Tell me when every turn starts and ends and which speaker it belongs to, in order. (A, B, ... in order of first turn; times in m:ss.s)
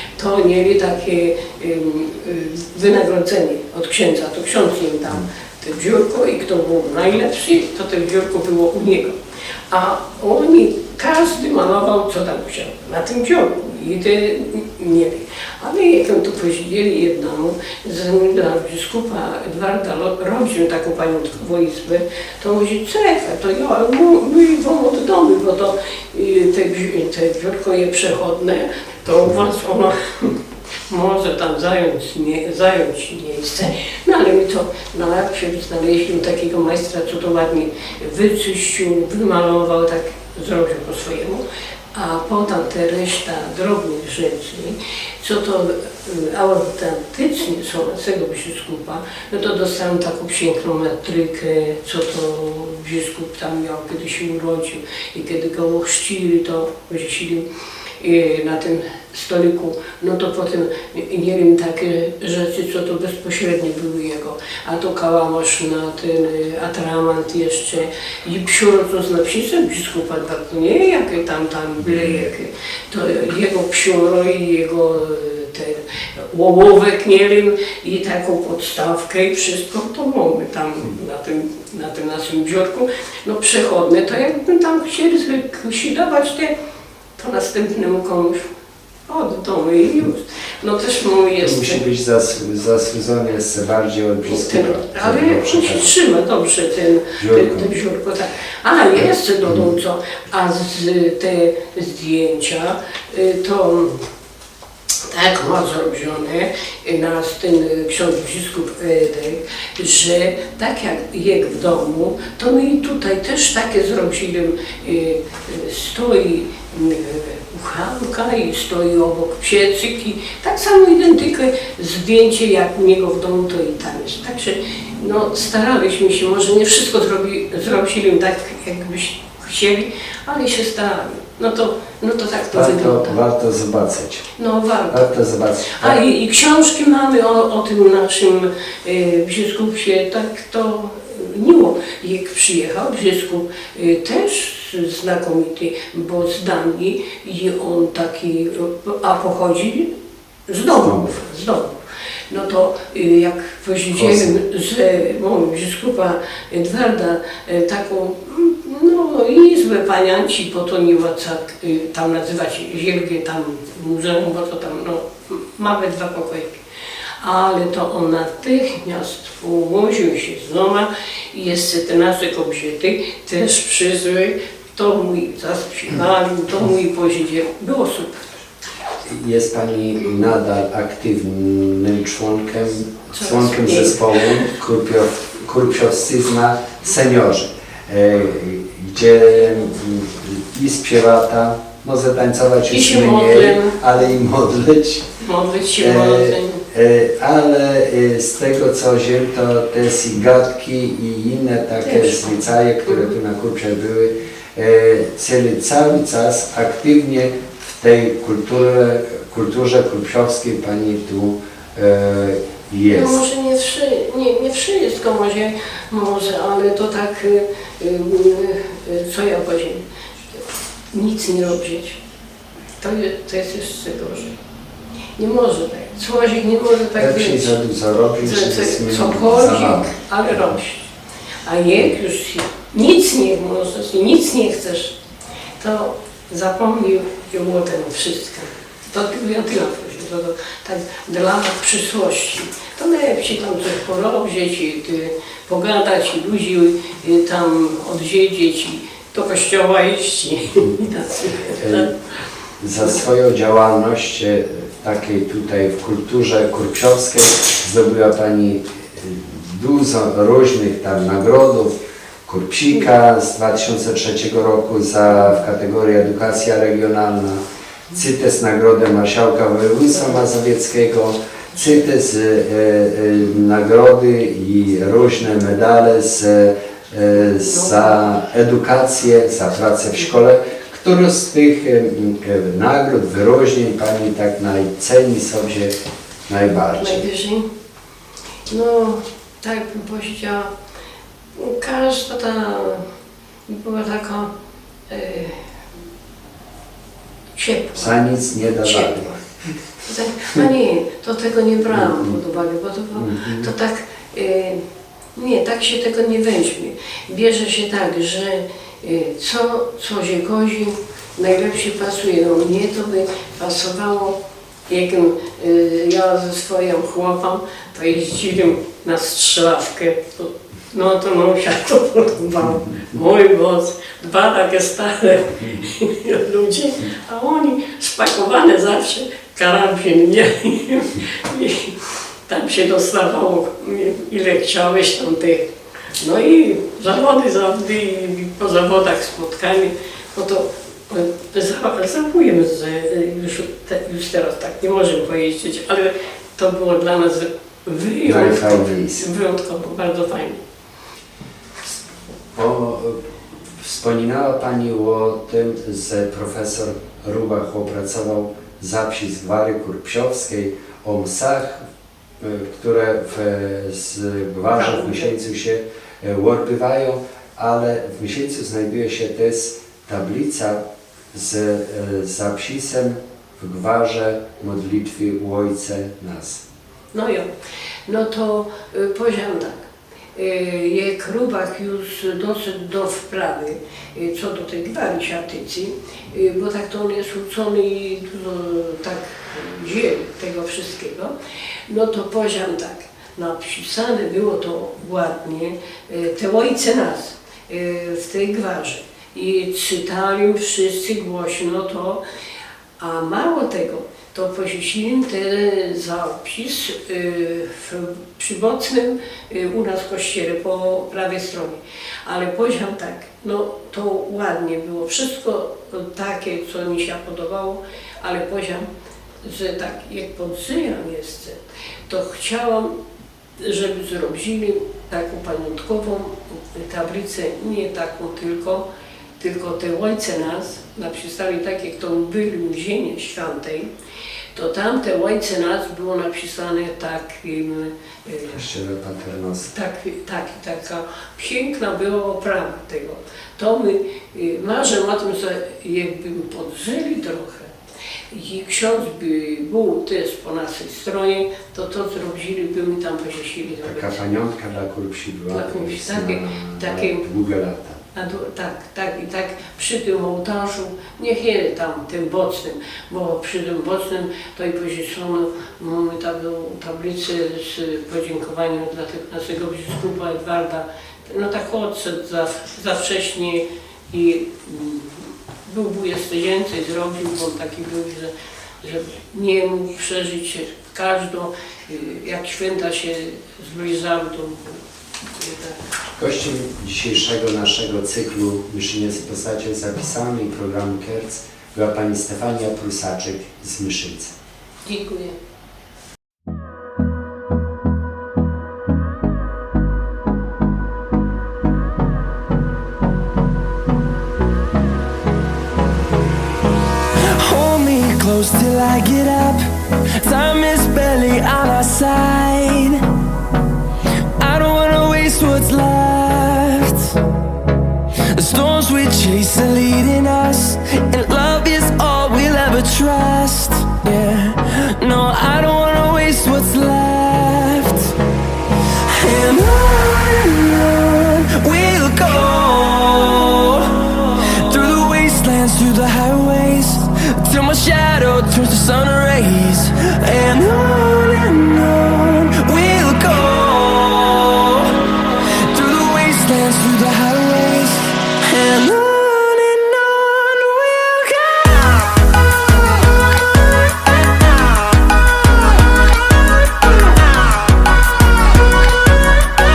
0:00.2-0:09.2 A
0:09.7-0:57.5 A
0:58.0-1:26.6 A
1:27.2-1:28.5 A
1:29.1-1:31.8 A
1:31.4-1:35.9 B
1:34.2-1:44.1 A
1:37.2-1:37.7 B
1:45.1-2:13.2 A
2:12.5-2:14.3 B
2:14.4-2:15.1 A
2:14.9-2:16.0 B
2:15.7-2:29.9 A
2:30.5-2:31.8 A
2:32.3-2:46.6 A
2:34.0-2:34.4 B
2:47.2-2:58.3 A
2:59.0-3:15.2 B
3:03.2-3:04.5 A
3:12.7-3:13.8 A
3:15.2-3:16.6 A
3:15.8-3:33.2 B
3:21.8-3:23.1 A
3:32.9-3:42.0 A
3:42.8-3:44.4 A
3:45.2-3:47.6 A
3:47.0-3:49.9 B
3:48.2-3:50.9 A
3:51.4-3:55.0 A
3:55.6-4:12.0 A
4:11.6-4:11.9 B
4:12.6-4:45.8 B
4:37.3-4:38.1 A
4:46.3-4:47.1 B
4:46.8-4:47.5 A
4:48.5-4:50.5 A
4:51.4-4:52.9 A
4:53.5-4:54.3 A
4:54.9-4:55.4 A
4:57.4-4:58.0 A
4:57.8-4:59.1 B
4:58.6-4:59.2 A
4:59.8-5:04.6 A
5:01.7-5:02.2 B
5:03.0-5:03.5 B
5:05.2-5:35.5 A
5:36.0-5:50.4 A
5:48.0-5:49.1 B
5:52.3-6:01.6 B
6:02.2-6:16.4 B
6:04.7-6:05.0 A
6:16.9-6:17.3 A
6:17.9-6:31.2 A
6:31.7-6:42.0 A
6:42.8-6:58.7 A
6:59.2-7:02.7 A
7:03.4-7:08.6 A
7:09.2-7:13.7 A
7:14.3-7:18.4 A
7:18.3-7:19.5 B
7:19.5-7:27.5 A
7:28.1-7:34.0 A
7:33.6-7:37.8 B
7:35.3-7:37.0 A
7:38.0-8:04.6 A
8:05.1-8:05.6 A
8:06.0-8:14.1 B
8:14.6-8:15.2 A
8:27.0-8:32.9 C
8:34.2-8:37.0 C
8:38.1-8:47.9 C
8:48.8-9:12.0 C